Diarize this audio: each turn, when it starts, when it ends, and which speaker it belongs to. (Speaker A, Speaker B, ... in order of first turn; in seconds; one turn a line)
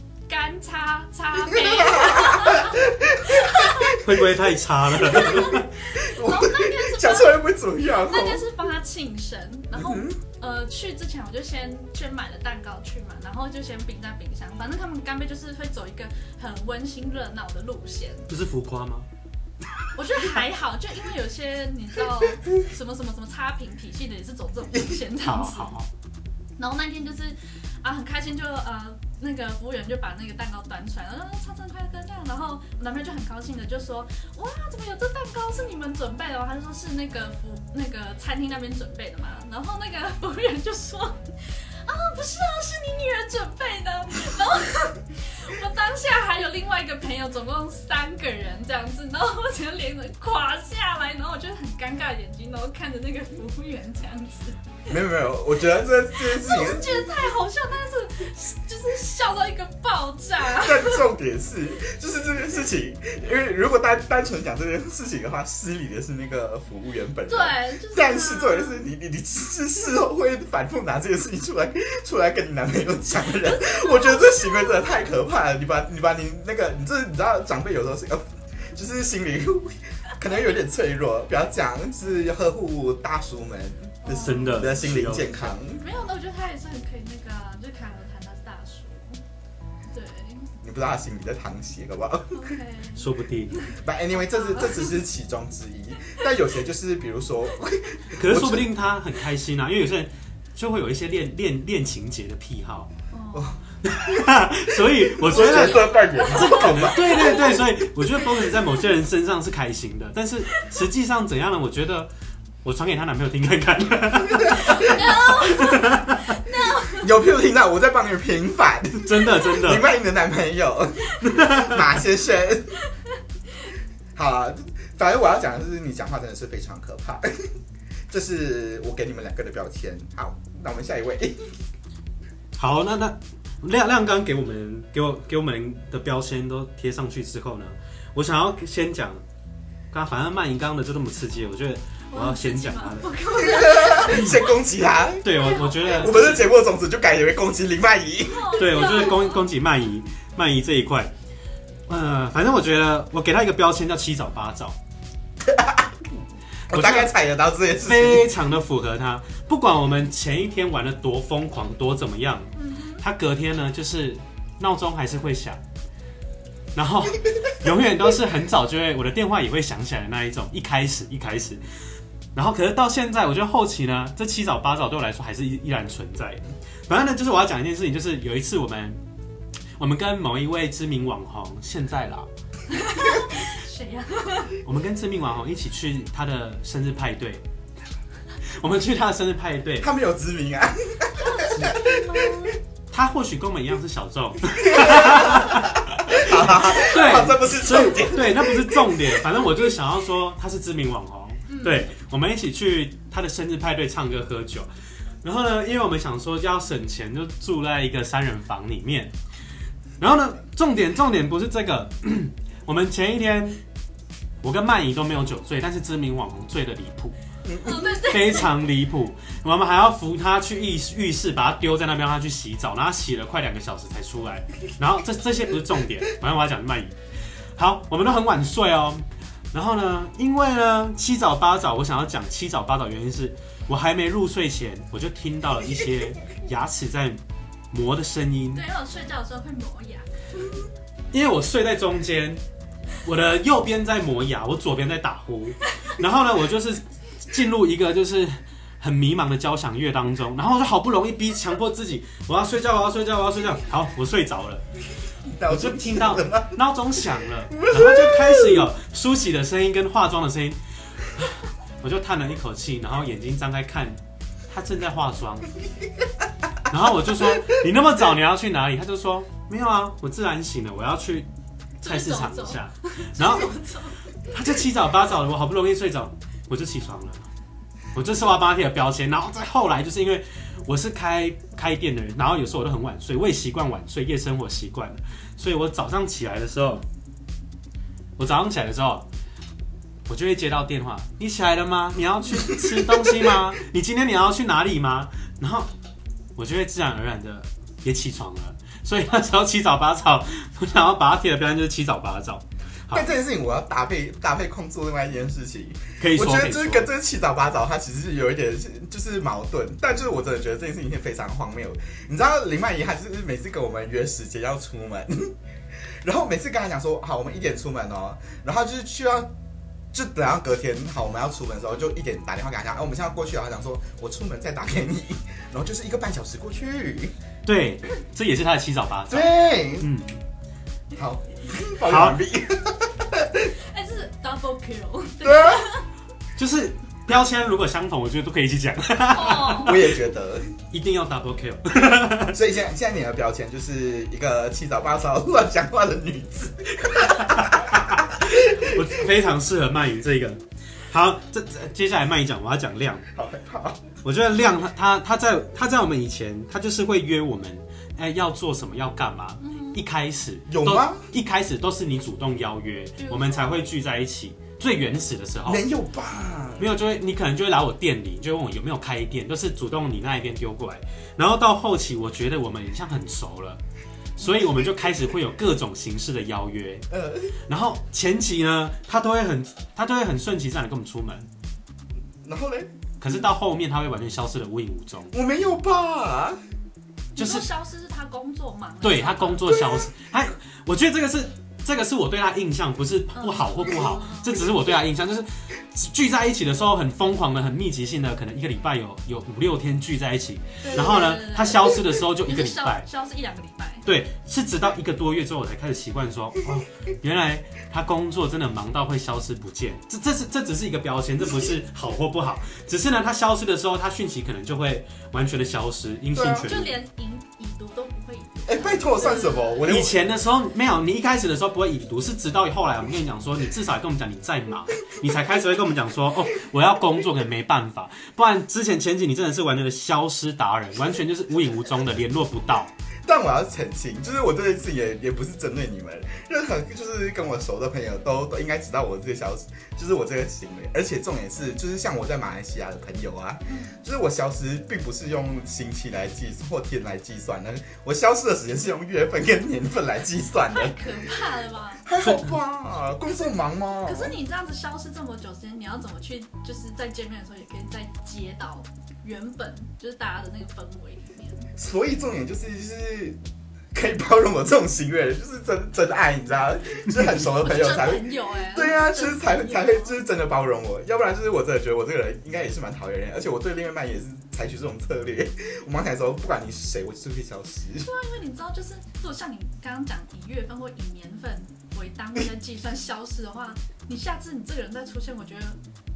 Speaker A: 0.3-4.0
Speaker B: 1.4-4.1
Speaker C: 3.9-5.7
Speaker B: 5.0-8.5
Speaker A: 5.0-7.4
Speaker A: 8.0-18.3
Speaker B: 9.7-10.2
Speaker C: 18.3-19.1
Speaker A: 19.9-25.7
Speaker C: 25.2-25.9
Speaker A: 26.6-54.6
Speaker B: 54.9-57.2
Speaker A: 56.1-61.0
Speaker B: 60.5-85.8
Speaker A: 67.3-68.8
Speaker A: 73.5-74.8
Speaker A: 84.0-84.8
Speaker C: 84.1-85.5
Speaker A: 85.8-89.2
Speaker A: 89.9-90.5
Speaker B: 90.6-92.5
Speaker A: 92.3-95.0
Speaker C: 93.0-93.5
Speaker B: 93.8-98.7
Speaker C: 98.2-102.9
Speaker A: 103.1-103.6
Speaker B: 103.3-107.6
Speaker C: 103.8-112.1
Speaker A: 105.3-107.7
Speaker C: 112.6-116.3
Speaker B: 114.4-114.9
Speaker A: 114.5-117.1
Speaker B: 116.9-122.8
Speaker C: 119.0-119.9
Speaker C: 121.2-121.8
Speaker B: 124.1-127.5
Speaker B: 128.1-131.3
Speaker C: 132.5-139.2
Speaker C: 139.9-143.2
Speaker A: 142.1-144.5
Speaker B: 143.4-145.3
Speaker C: 144.0-144.4
Speaker C: 145.2-146.5
Speaker A: 145.3-146.3
Speaker B: 145.8-149.0
Speaker A: 148.2-149.5
Speaker C: 148.6-151.1
Speaker C: 151.9-154.8
Speaker B: 155.4-158.3
Speaker C: 156.7-157.1
Speaker C: 157.8-165.6
Speaker A: 162.6-163.0
Speaker C: 166.7-171.6
Speaker C: 172.3-179.0
Speaker C: 179.8-182.3
Speaker A: 182.7-184.6
Speaker C: 184.6-187.4
Speaker C: 188.4-189.9
Speaker B: 189.8-192.5
Speaker A: 191.2-192.6
Speaker C: 192.9-204.7
Speaker B: 194.6-199.3
Speaker A: 201.5-201.9
Speaker C: 205.2-209.1
Speaker C: 210.0-213.6
Speaker C: 214.4-217.1
Speaker B: 217.4-218.0
Speaker A: 217.6-218.5
Speaker C: 218.0-226.9
Speaker C: 227.6-237.2
Speaker C: 237.7-238.6
Speaker A: 238.5-240.0
Speaker C: 241.1-242.4
Speaker C: 243.0-254.6
Speaker B: 255.3-256.5
Speaker C: 255.5-264.0
Speaker B: 257.5-258.7
Speaker C: 264.5-265.5
Speaker C: 266.7-271.3
Speaker C: 271.8-273.5
Speaker A: 271.8-274.0
Speaker C: 274.3-277.2
Speaker C: 277.9-286.8
Speaker C: 288.2-289.1
Speaker C: 290.1-295.7
Speaker C: 296.4-303.1
Speaker B: 302.9-315.3
Speaker C: 306.0-306.9
Speaker B: 316.0-319.3
Speaker B: 319.9-327.1
Speaker C: 327.4-330.2
Speaker B: 329.1-329.9
Speaker B: 330.9-333.5
Speaker C: 331.8-332.2
Speaker A: 333.6-335.9
Speaker B: 335.2-335.7
Speaker C: 336.4-340.0
Speaker A: 339.1-339.8
Speaker B: 339.5-340.5
Speaker C: 340.7-342.4
Speaker B: 342.3-348.9
Speaker C: 346.9-353.1
Speaker B: 353.1-353.9
Speaker C: 354.0-365.6
Speaker A: 359.4-359.8
Speaker B: 360.5-361.1
Speaker A: 363.0-363.6
Speaker B: 365.4-366.7
Speaker C: 366.6-373.6
Speaker C: 374.2-376.9
Speaker B: 376.9-377.3
Speaker C: 377.5-381.3
Speaker B: 382.2-382.7
Speaker C: 383.0-385.1
Speaker B: 385.1-386.4
Speaker C: 387.1-387.4
Speaker A: 387.2-389.6
Speaker C: 388.8-402.9
Speaker A: 393.1-394.5
Speaker A: 400.6-403.9
Speaker C: 403.8-416.7
Speaker B: 416.1-416.5
Speaker A: 416.4-419.6
Speaker B: 418.5-420.1
Speaker C: 419.6-432.7
Speaker B: 433.1-450.9
Speaker A: 443.5-443.7
Speaker A: 450.5-451.8
Speaker B: 451.8-454.1
Speaker A: 453.8-461.5
Speaker B: 461.6-463.2
Speaker B: 463.7-477.9
Speaker A: 467.3-470.0
Speaker A: 477.8-485.6